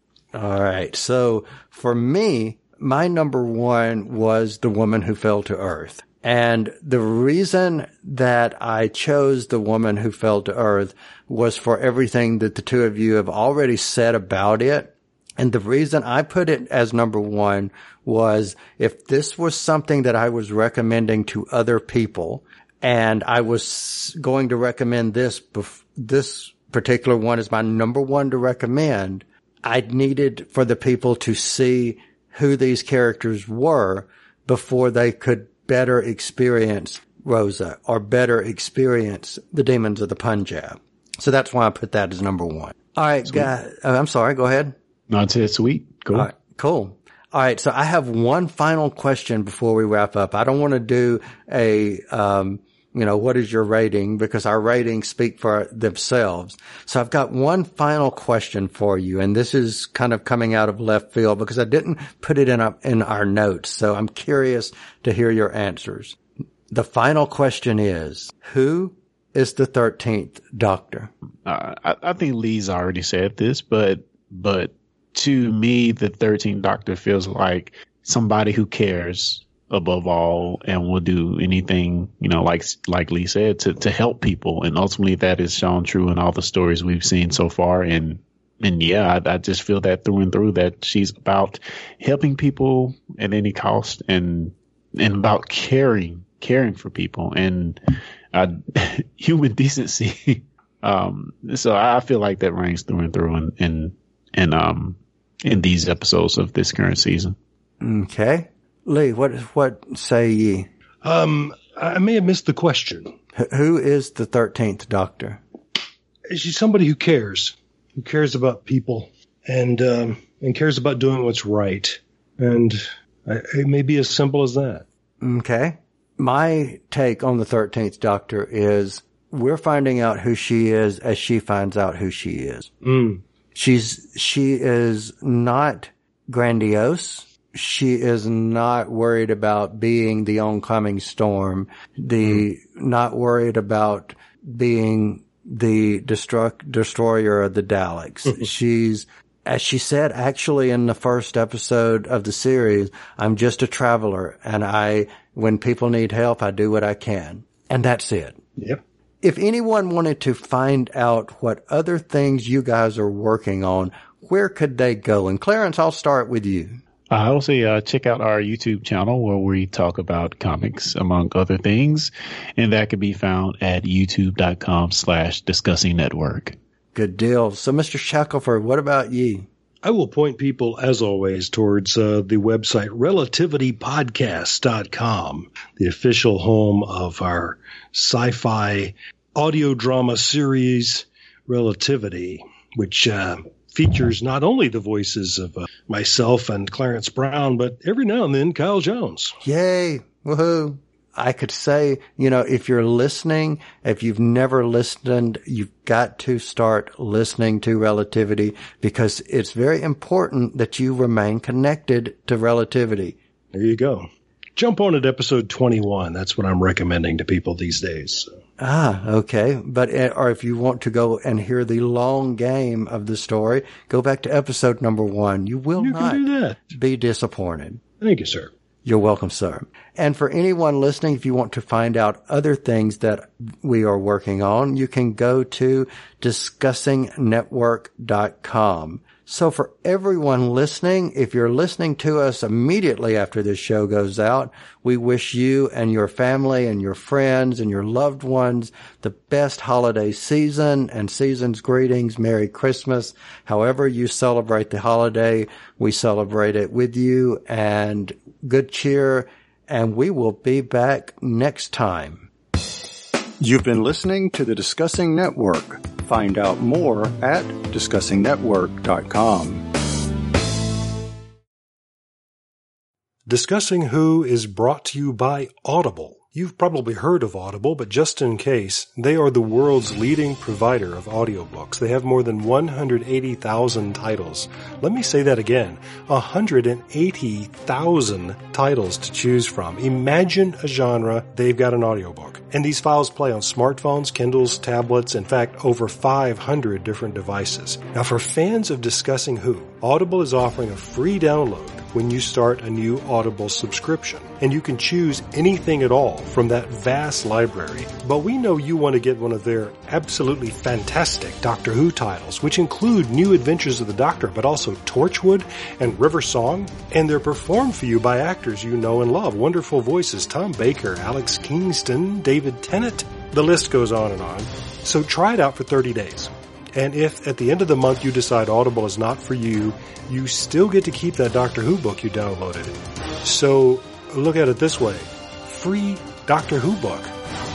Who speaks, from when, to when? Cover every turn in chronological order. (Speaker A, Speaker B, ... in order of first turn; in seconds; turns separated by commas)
Speaker A: 0.3-44.8, Speaker B: 45.1-46.3, Speaker A: 46.1-66.2, Speaker A: 66.7-71.1, Speaker B: 71.5-107.4, Speaker A: 107.8-110.7, Speaker C: 111.0-113.1, Speaker A: 113.3-115.4, Speaker C: 116.3-124.8, Speaker A: 125.2-132.7, Speaker C: 132.8-133.2, Speaker A: 133.6-158.4, Speaker A: 159.2-166.8, Speaker B: 167.1-176.6, Speaker A: 176.9-179.5, Speaker C: 179.8-199.4, Speaker A: 199.4-213.2, Speaker C: 213.5-218.3, Speaker A: 218.6-227.8, Speaker C: 225.8-226.6, Speaker C: 228.0-228.5, Speaker A: 228.8-262.3, Speaker A: 263.4-269.6, Speaker C: 273.3-337.1